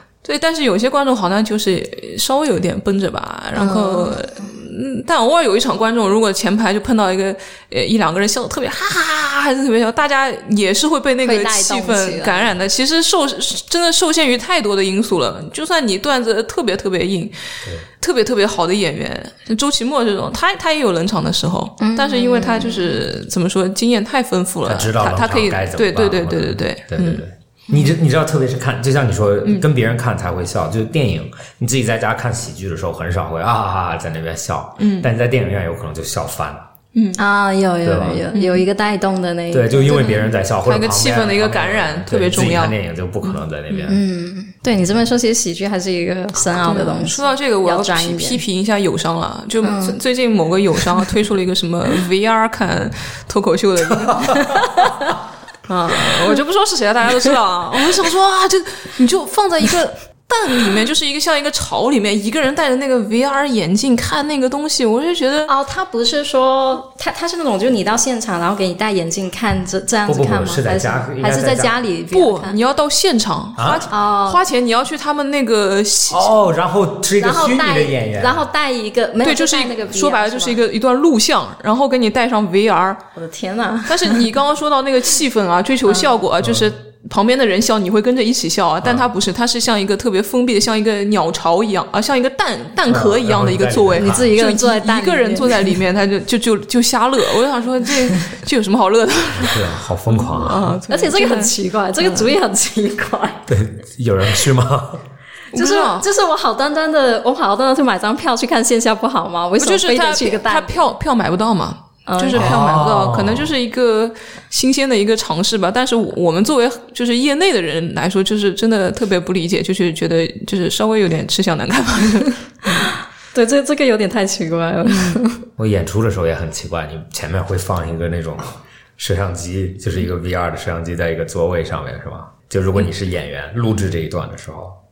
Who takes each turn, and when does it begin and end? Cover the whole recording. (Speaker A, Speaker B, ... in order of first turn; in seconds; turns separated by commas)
Speaker A: 0.2-27.2, Speaker B: 3.5-4.2, Speaker B: 11.2-12.5, Speaker B: 21.8-23.0, Speaker C: 24.6-36.7, Speaker A: 34.8-35.1, Speaker A: 36.9-37.2, Speaker B: 37.2-40.2, Speaker C: 37.8-38.3, Speaker A: 38.3-38.7, Speaker C: 39.5-44.0, Speaker A: 40.6-43.4, Speaker B: 43.8-48.4, Speaker A: 46.6-55.1, Speaker B: 49.6-50.0, Speaker C: 54.0-54.5, Speaker B: 54.3-55.1, Speaker A: 55.7-65.5, Speaker B: 65.5-72.6, Speaker C: 70.1-71.8, Speaker A: 72.1-76.4, Speaker C: 73.6-73.9, Speaker B: 73.9-74.4, Speaker C: 76.1-78.5, Speaker B: 77.2-80.6, Speaker A: 79.2-83.0, Speaker B: 83.2-84.2, Speaker A: 83.9-102.3, Speaker C: 86.4-86.7, Speaker C: 88.8-89.1, Speaker C: 92.9-94.3, Speaker B: 94.0-95.7, Speaker C: 99.4-100.8, Speaker B: 100.9-103.5, Speaker C: 103.5-105.0, Speaker A: 105.5-106.1, Speaker B: 105.5-110.8, Speaker A: 109.6-122.4, Speaker B: 112.1-112.6, Speaker C: 112.3-113.5, Speaker B: 122.8-125.4, Speaker A: 124.9-125.2, Speaker C: 125.6-134.8